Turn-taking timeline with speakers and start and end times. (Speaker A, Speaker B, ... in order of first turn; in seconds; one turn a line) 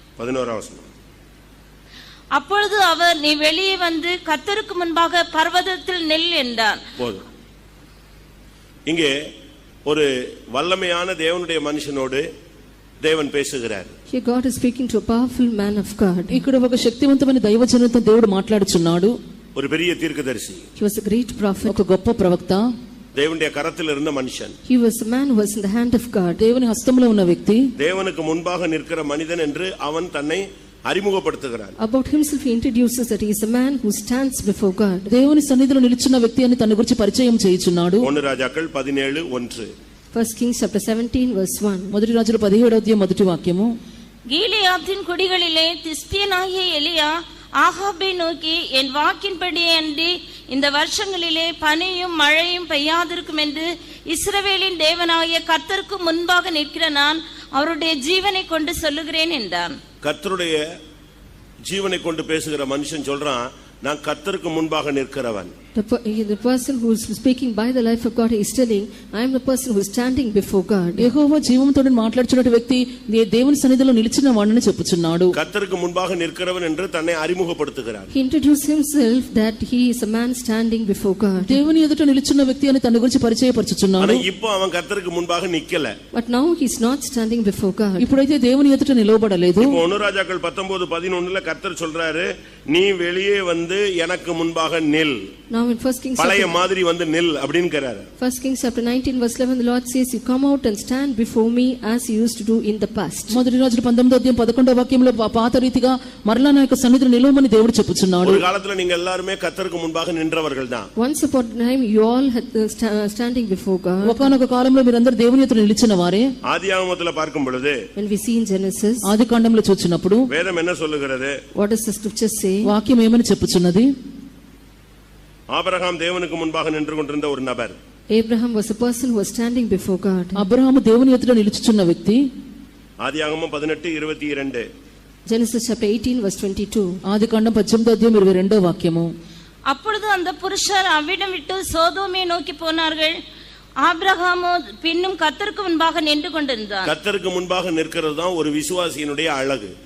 Speaker A: 0.2-0.9
Speaker B: 2.3-6.8
Speaker A: 7.0-7.2
Speaker A: 8.9-9.1
Speaker A: 9.9-12.3
Speaker A: 13.0-13.9
Speaker C: 14.1-16.4
Speaker D: 16.3-19.1
Speaker A: 19.6-20.6
Speaker C: 20.8-21.8
Speaker D: 21.7-22.7
Speaker A: 23.1-24.5
Speaker C: 24.7-26.4
Speaker D: 26.4-27.6
Speaker A: 27.8-31.8
Speaker C: 31.8-35.1
Speaker D: 35.1-38.1
Speaker A: 38.0-39.7
Speaker C: 40.1-41.9
Speaker D: 41.9-43.8
Speaker B: 44.3-59.8
Speaker A: 60.0-60.6
Speaker A: 61.7-65.5
Speaker C: 65.7-71.1
Speaker D: 71.0-75.3
Speaker A: 75.3-78.1
Speaker C: 78.1-81.5
Speaker D: 81.5-84.2
Speaker A: 84.0-85.9
Speaker C: 86.1-88.1
Speaker D: 88.0-89.8
Speaker A: 89.6-95.2
Speaker C: 95.5-96.5
Speaker A: 96.2-98.1
Speaker C: 98.2-103.4
Speaker D: 103.3-108.4
Speaker A: 108.2-110.9
Speaker C: 111.0-114.3
Speaker D: 114.0-116.3
Speaker A: 116.5-117.8
Speaker C: 118.0-119.1
Speaker D: 119.0-120.3
Speaker A: 120.3-121.3
Speaker C: 121.6-122.7
Speaker D: 122.7-123.9
Speaker A: 125.5-127.8
Speaker C: 128.1-130.4
Speaker D: 130.3-132.2
Speaker A: 133.0-134.6
Speaker C: 135.3-137.0
Speaker D: 137.1-139.1
Speaker B: 139.7-143.1
Speaker B: 143.8-146.9
Speaker A: 146.8-149.7